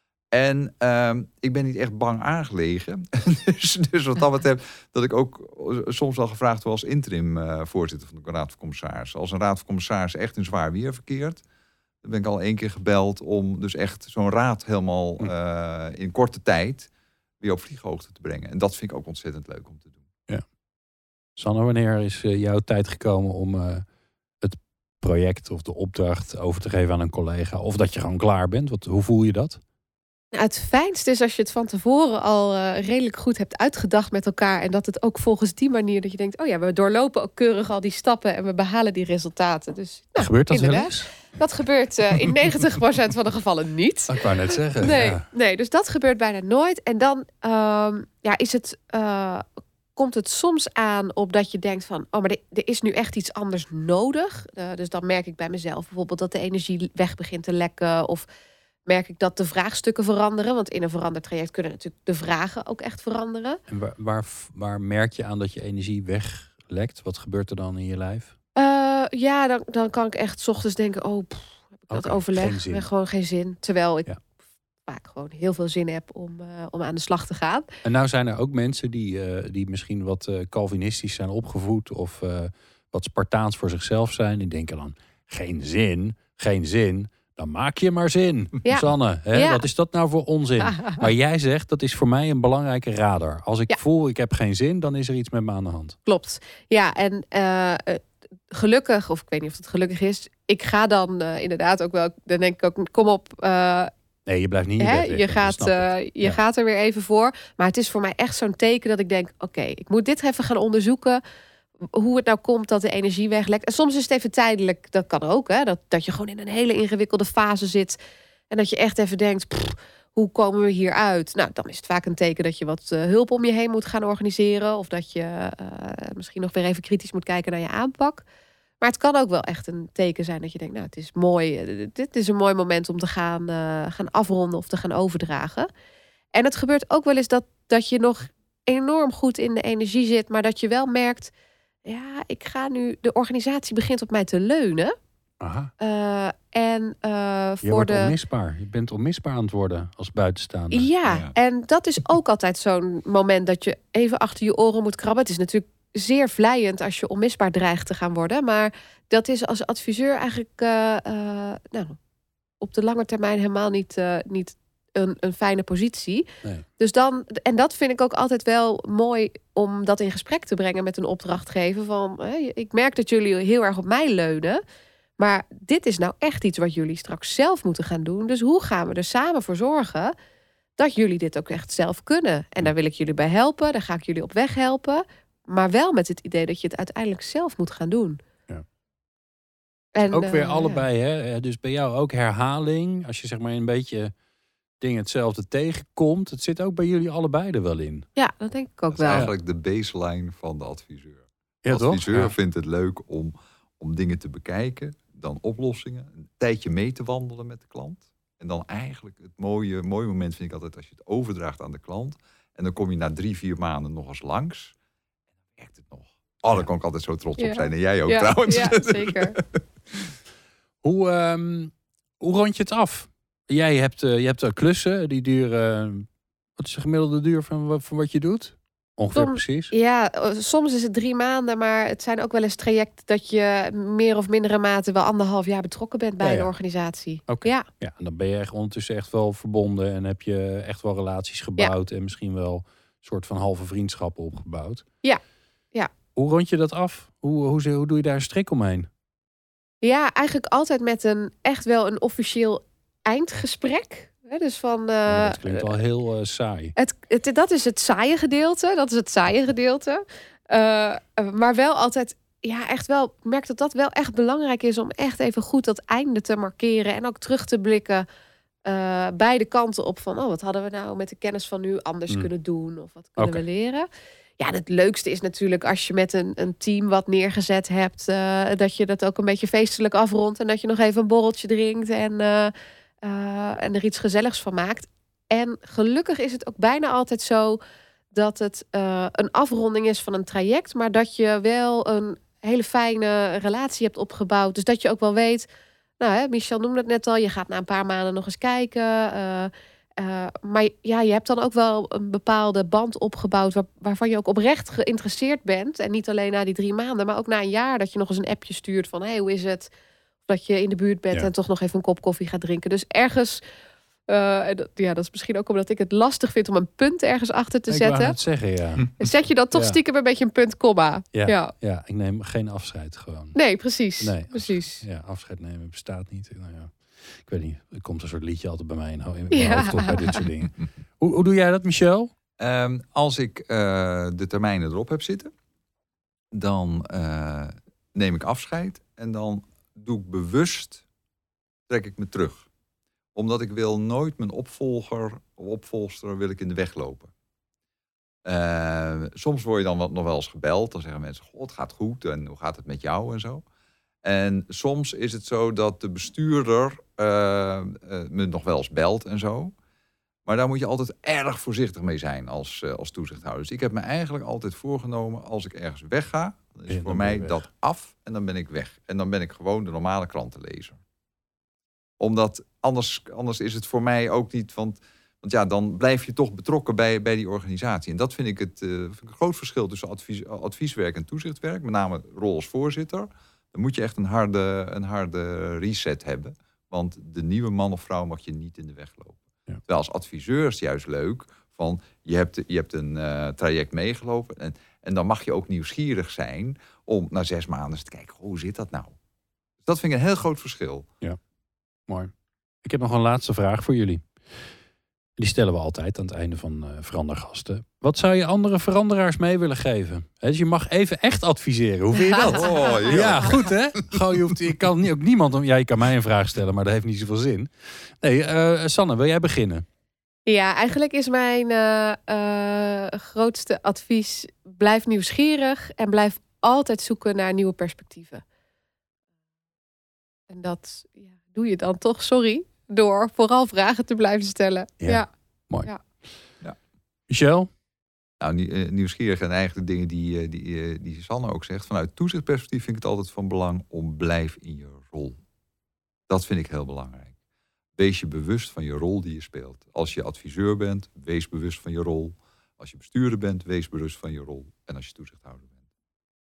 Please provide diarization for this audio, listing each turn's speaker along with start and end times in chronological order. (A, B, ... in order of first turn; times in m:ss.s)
0:00.3-0:11.4 A
0:12.0-0:16.9 A
0:17.4-0:20.0 A
0:21.4-0:23.8 B
0:24.4-0:29.6 B
0:30.3-0:58.3 C
0:40.2-0:41.1 B
0:44.1-0:45.2 B
0:58.9-1:03.6 C
1:03.7-1:08.3 B
1:08.6-1:14.1 C
1:11.9-1:12.9 B
1:14.9-1:17.7 C
1:17.8-1:36.0 B
1:28.6-1:29.6 C
1:30.6-1:31.0 C
1:36.1-1:43.9 C
1:44.3-1:46.4 B
1:44.8-1:51.2 C
1:51.9-1:58.0 C
1:58.5-2:08.2 C
2:08.8-2:15.7 C
2:16.3-2:21.3 C
2:21.8-2:25.0 C
2:25.4-2:25.7 B
2:25.8-2:28.1 C
2:27.6-2:30.9 B
2:30.7-2:42.0 C
2:31.0-2:31.4 A
2:42.6-2:46.3 C
2:46.8-2:54.6 C
2:55.2-3:00.1 C
3:00.8-3:08.2 C
3:10.0-3:10.8 C
3:10.1-3:14.1 B
3:14.8-3:18.1 B
3:18.2-3:19.3 C
3:18.9-3:34.7 A
3:21.6-3:22.3 B
3:35.6-3:40.1 A
3:37.4-3:39.4 C
3:40.8-3:46.1 B
3:46.6-3:49.7 B
3:49.1-3:57.7 C
3:56.2-3:56.5 B
3:57.3-4:04.8 B
4:06.2-4:08.9 B
4:09.8-4:15.8 C
4:15.1-4:16.7 B
4:16.8-4:28.0 C
4:28.6-4:33.9 C
4:33.2-4:33.4 B
4:34.4-4:47.6 C
4:48.1-4:55.5 C
4:56.0-5:09.7 C
5:10.3-5:13.4 C
5:14.1-5:18.2 C
5:17.7-5:18.9 B
5:19.0-5:21.5 C
5:21.1-5:23.4 B
5:23.4-5:24.8 C
5:24.0-5:32.1 B
5:29.3-5:30.2 C
5:32.4-5:35.3 A
5:36.3-5:40.8 A
5:41.7-5:42.5 A
5:43.2-5:47.1 A
5:48.2-5:53.4 A
5:54.0-5:59.5 A
6:00.3-6:10.8 A
6:06.7-6:07.4 B
6:12.0-6:39.0 A
6:39.6-6:40.9 A
6:41.9-6:42.1 B
6:42.6-6:44.1 B
6:45.2-6:59.6 B
6:52.0-6:53.1 C
6:52.2-6:54.3 A
7:00.3-7:08.2 C
7:10.3-7:15.1 C
7:14.8-7:15.7 B
7:17.1-7:17.5 B
7:18.2-7:25.2 A
7:26.1-7:27.2 A
7:27.8-7:35.6 A